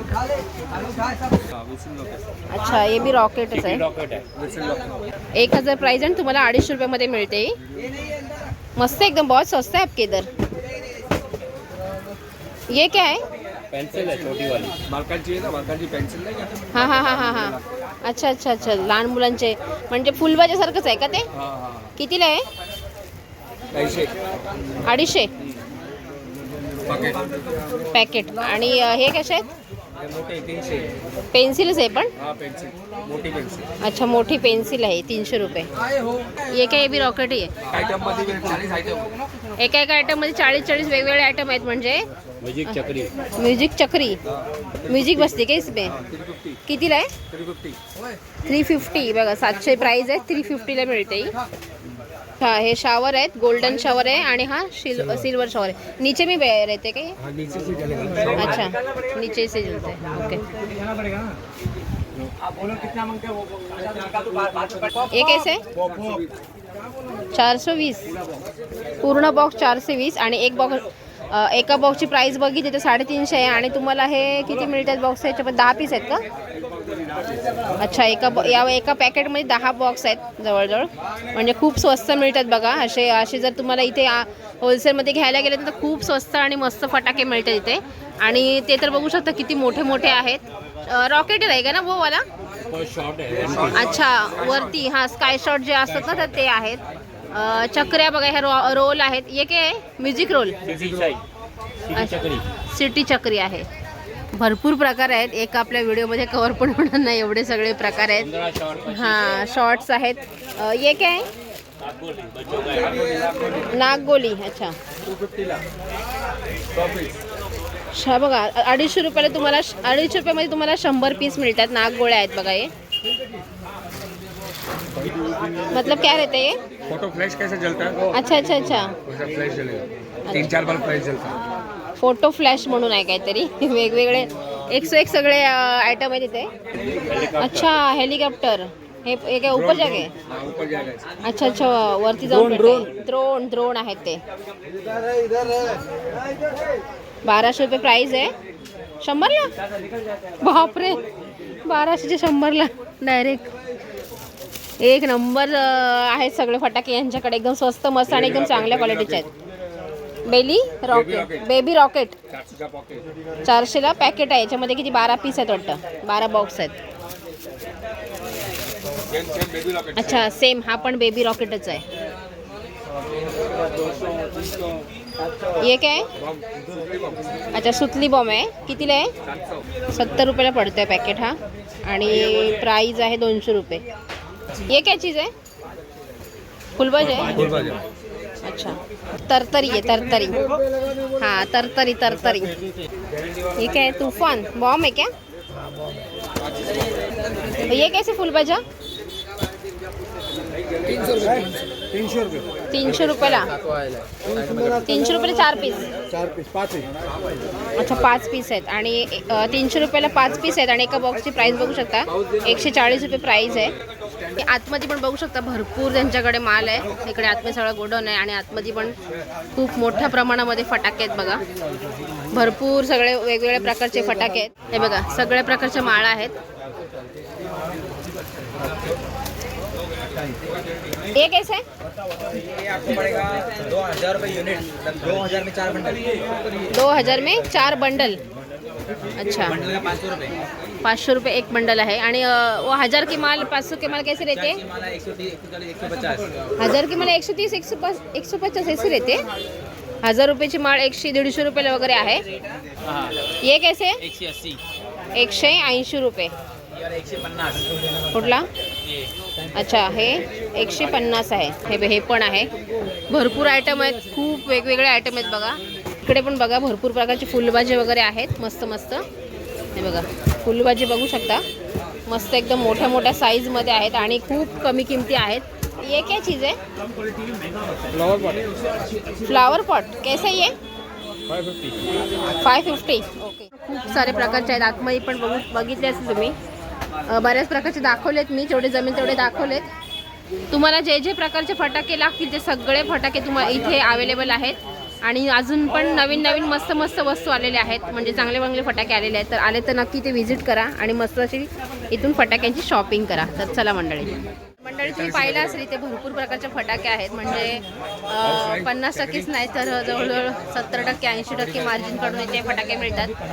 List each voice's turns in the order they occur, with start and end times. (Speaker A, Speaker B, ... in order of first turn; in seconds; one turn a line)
Speaker A: 1.4-2.2
Speaker B: 2.5-3.8
Speaker C: 3.5-4.2
Speaker A: 4.3-4.9
Speaker B: 5.3-7.5
Speaker B: 8.8-10.3
Speaker B: 12.7-13.2
Speaker C: 13.7-14.8
Speaker A: 14.8-17.6
Speaker B: 16.7-21.3
Speaker A: 21.3-21.9
Speaker B: 22.0-22.4
Speaker A: 23.7-24.1
Speaker B: 24.8-25.3
Speaker A: 26.9-27.2
Speaker B: 27.9-29.5
Speaker A: 30.0-30.9
Speaker B: 31.3-32.1
Speaker A: 32.2-33.7
Speaker B: 33.8-35.7
Speaker B: 36.4-37.5
Speaker A: 37.6-39.1
Speaker B: 39.5-42.0
Speaker C: 42.4-43.1
Speaker B: 43.4-44.2
Speaker B: 44.9-46.0
Speaker A: 46.0-46.6
Speaker B: 46.7-47.1
Speaker A: 47.3-47.8
Speaker B: 48.4-51.3
Speaker B: 52.4-57.2
Speaker A: 54.9-55.3
Speaker A: 57.2-58.6
Speaker B: 58.4-60.5
Speaker B: 65.1-65.7
Speaker A: 65.7-66.3
Speaker B: 67.3-68.1
Speaker B: 69.0-76.2
Speaker A: 76.7-77.3
Speaker B: 77.8-92.2
Speaker C: 92.6-93.8
Speaker A: 93.5-94.7
Speaker B: 93.7-100.6
Speaker C: 100.6-101.2
Speaker C: 101.8-102.4
Speaker B: 101.9-103.7
Speaker B: 104.3-108.3
Speaker C: 108.2-109.4
Speaker B: 108.9-111.3
Speaker C: 111.8-113.6
Speaker A: 113.1-113.5
Speaker B: 113.7-114.8
Speaker A: 115.0-115.6
Speaker A: 116.7-117.1
Speaker B: 117.9-122.7
Speaker B: 125.7-126.6
Speaker A: 126.8-128.1
Speaker B: 128.1-128.9
Speaker A: 129.0-131.4
Speaker B: 130.3-130.5
Speaker B: 132.0-136.5
Speaker C: 137.1-137.7
Speaker B: 137.4-140.1
Speaker A: 139.5-141.0
Speaker B: 141.2-144.2
Speaker B: 147.2-148.3
Speaker B: 149.0-149.5
Speaker B: 150.4-151.0
Speaker B: 151.7-153.5
Speaker B: 154.8-159.3
Speaker A: 158.1-159.3
Speaker B: 160.2-162.2
Speaker A: 160.9-161.5
Speaker A: 162.3-163.1
Speaker B: 163.4-166.8
Speaker A: 168.9-170.3
Speaker B: 169.9-171.8
Speaker A: 173.3-174.6
Speaker B: 175.6-176.1
Speaker A: 176.1-177.3
Speaker B: 177.5-179.1
Speaker A: 179.2-179.7
Speaker B: 179.9-183.8
Speaker B: 184.7-185.3
Speaker B: 186.8-187.4
Speaker C: 187.0-187.8
Speaker A: 187.3-187.8
Speaker B: 188.4-190.4
Speaker B: 191.2-192.5
Speaker A: 193.1-193.8
Speaker B: 193.6-195.1
Speaker B: 197.6-198.6
Speaker A: 200.6-201.6
Speaker D: 201.0-202.1
Speaker B: 202.7-203.5
Speaker D: 203.0-204.8
Speaker B: 204.8-205.9
Speaker D: 206.4-206.8
Speaker B: 207.8-213.8
Speaker B: 214.3-218.9
Speaker B: 219.5-221.4
Speaker B: 222.3-226.3
Speaker B: 231.1-231.6
Speaker E: 232.7-236.0
Speaker B: 236.7-238.2
Speaker B: 239.2-239.7
Speaker E: 239.8-240.3
Speaker B: 240.8-244.6
Speaker E: 244.9-246.3
Speaker B: 246.6-249.2
Speaker B: 250.0-252.2
Speaker B: 253.4-254.1
Speaker C: 254.1-254.6
Speaker B: 255.1-256.3
Speaker E: 257.1-257.6
Speaker B: 258.1-258.5
Speaker B: 259.5-262.5
Speaker B: 263.1-269.0
Speaker B: 269.7-271.4
Speaker B: 272.1-276.6
Speaker A: 277.9-278.5
Speaker B: 279.2-280.5
Speaker A: 281.3-281.8
Speaker B: 282.4-286.4
Speaker B: 287.1-289.7
Speaker B: 290.5-313.1
Speaker A: 304.8-305.6
Speaker A: 308.2-309.3